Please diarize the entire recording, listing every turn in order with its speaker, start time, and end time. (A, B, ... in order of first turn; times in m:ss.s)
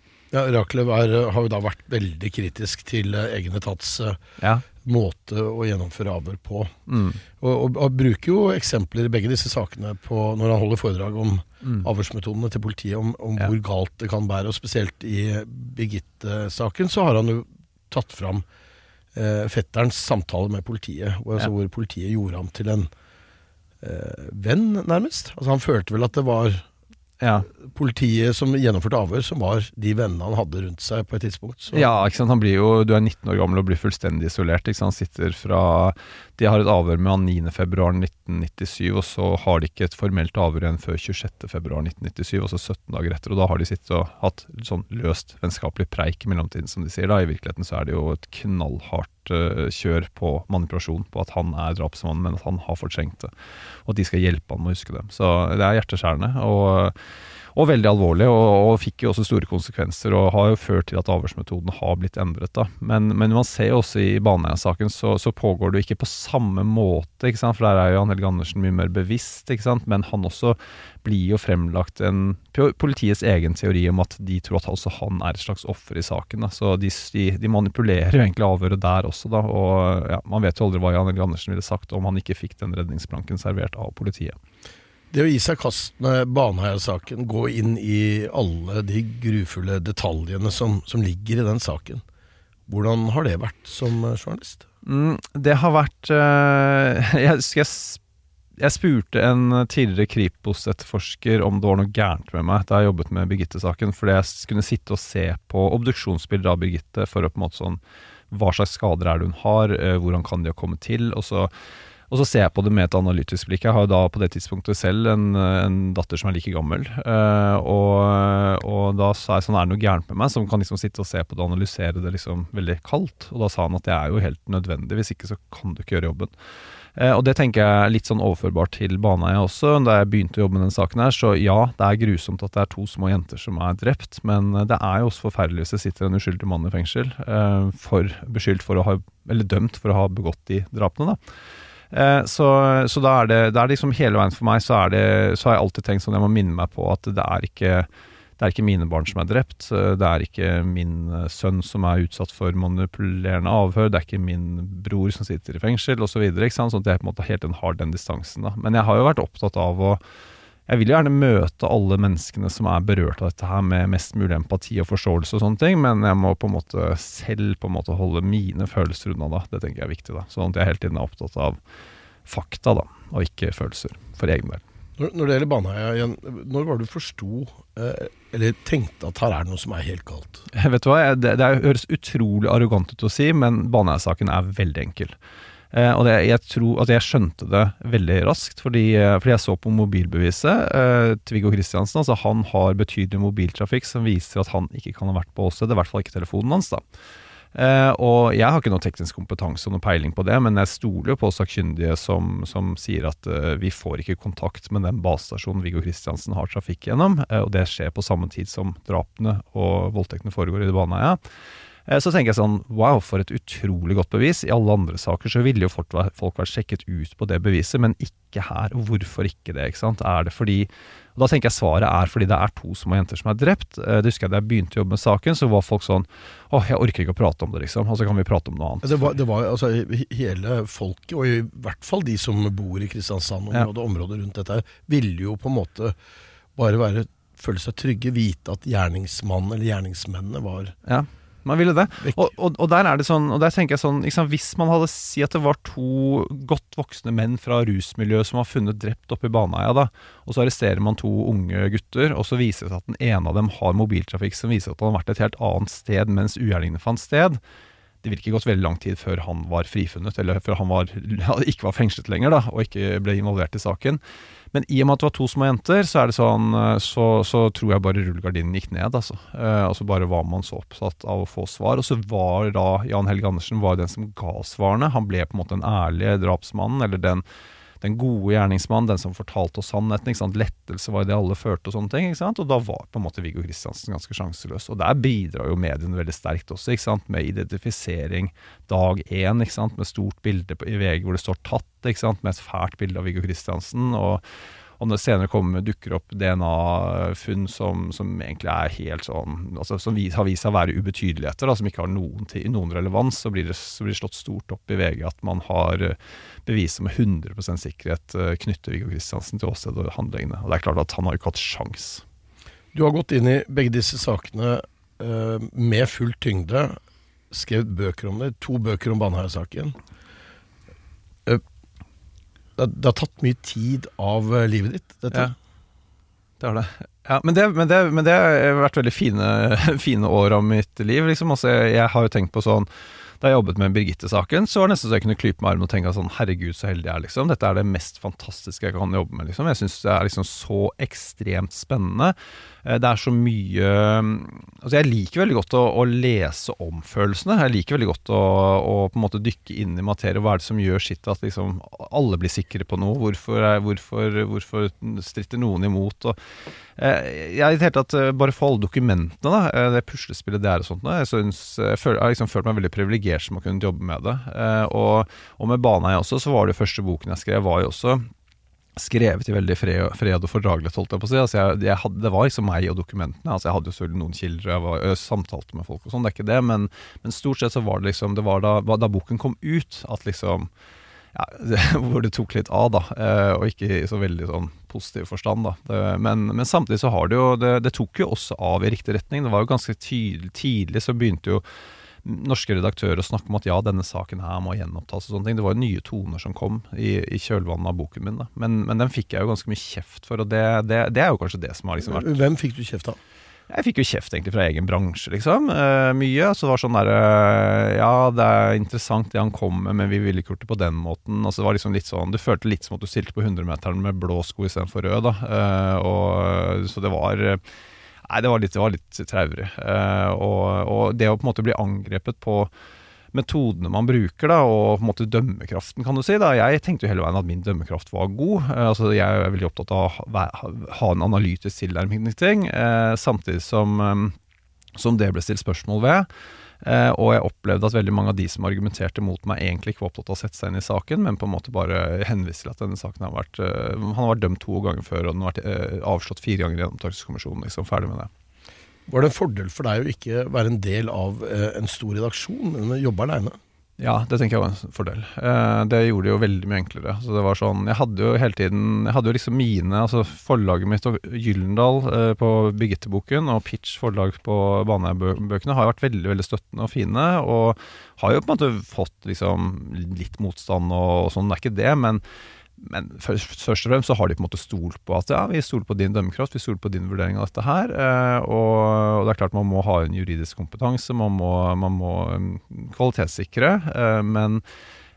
0:00.3-0:04.2 A
0:04.4-0:04.6 B
0:04.8-0:06.8 A
0:06.9-0:07.2 B
0:07.4-0:18.4 A
0:19.1-0:22.9 A
0:23.8-0:26.6 A
0:27.2-0:27.5 B
0:27.5-0:31.9 A
0:31.7-0:53.3 B
0:53.8-0:56.9 B
0:57.5-1:24.4 B
1:25.1-1:32.0 A
1:32.7-1:34.6 A
1:34.8-1:38.0 B
1:38.6-1:47.8 B
1:48.3-1:51.5 B
1:52.1-2:06.3 B
2:07.0-2:21.2 B
2:21.9-2:40.0 B
2:40.7-2:51.6 B
2:52.3-2:54.6 B
2:55.0-3:00.4 A
3:00.5-3:05.1 B
3:05.7-3:16.8 B
3:17.5-3:31.2 B
3:31.9-3:49.1 B
3:48.8-3:56.0 A
3:56.6-4:00.7 A
4:00.8-4:17.4 B
4:18.0-4:24.0 B
4:24.5-4:37.2 B
4:37.8-4:54.2 B
4:54.8-5:12.0 B
5:12.7-5:16.8 A
5:17.3-5:19.7 A
5:22.6-5:25.3 A
5:26.4-5:32.7 B
5:33.2-5:56.2 B
5:56.8-6:08.1 B
6:08.8-6:20.5 B
6:21.1-6:31.4 B
6:32.0-6:42.2 B
6:41.8-6:43.0 A
6:43.5-6:57.4 B
6:58.1-7:02.5 B
7:03.1-7:14.1 B
7:14.7-7:16.1 B
7:16.6-7:28.1 B
7:28.9-7:33.4 A
7:33.8-7:52.0 B
7:52.6-8:04.4 B